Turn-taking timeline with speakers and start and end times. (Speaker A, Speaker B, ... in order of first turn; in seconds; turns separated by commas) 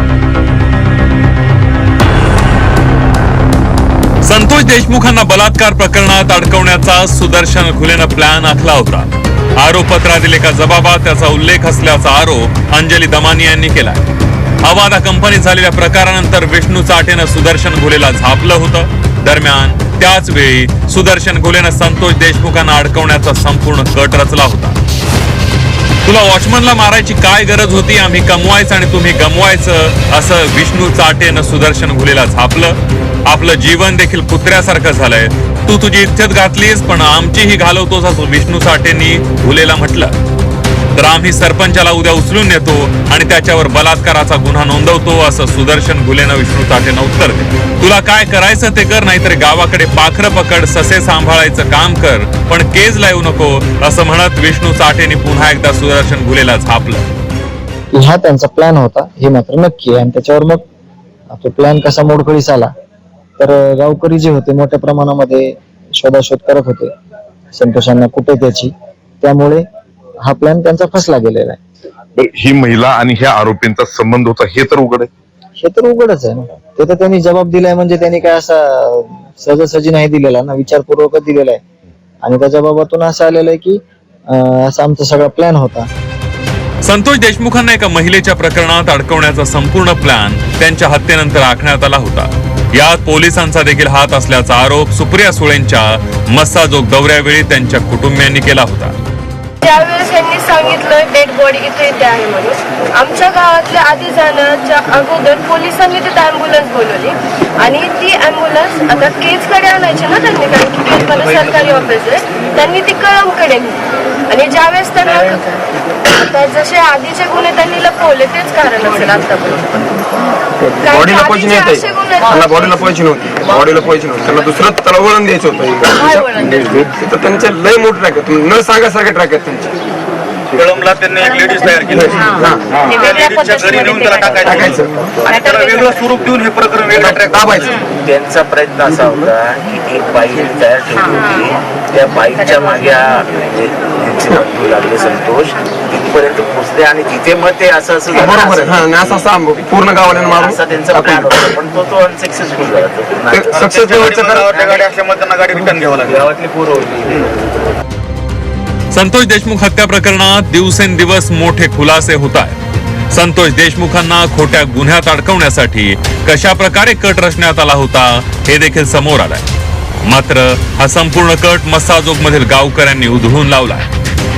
Speaker A: 4.2-14.0, Speaker A: 14.6-24.8, Speaker A: 26.1-32.8, Speaker A: 33.3-40.2, Speaker A: 41.0-57.1, Speaker B: 57.9-60.6, Speaker B: 61.3-62.7, Speaker B: 63.4-66.9, Speaker B: 67.5-69.6, Speaker B: 70.2-71.6, Speaker C: 72.2-75.1, Speaker B: 75.6-81.6, Speaker B: 82.2-85.9, Speaker A: 86.8-99.0, Speaker D: 99.6-120.0, Speaker E: 120.6-126.2, Speaker D: 120.8-122.9, Speaker D: 125.9-126.8, Speaker E: 126.9-129.7, Speaker F: 130.5-132.1, Speaker D: 131.2-131.9, Speaker E: 131.9-132.7, Speaker F: 132.7-134.8, Speaker D: 132.8-134.6, Speaker E: 134.4-135.1, Speaker D: 135.3-136.2, Speaker F: 135.3-137.6, Speaker E: 136.9-137.9, Speaker G: 137.9-148.8, Speaker E: 148.1-151.6, Speaker G: 150.1-153.5, Speaker E: 153.3-154.6, Speaker F: 153.6-156.2, Speaker G: 154.4-154.9, Speaker G: 155.8-157.2, Speaker A: 158.9-162.6, Speaker A: 163.1-169.5, Speaker A: 170.1-173.9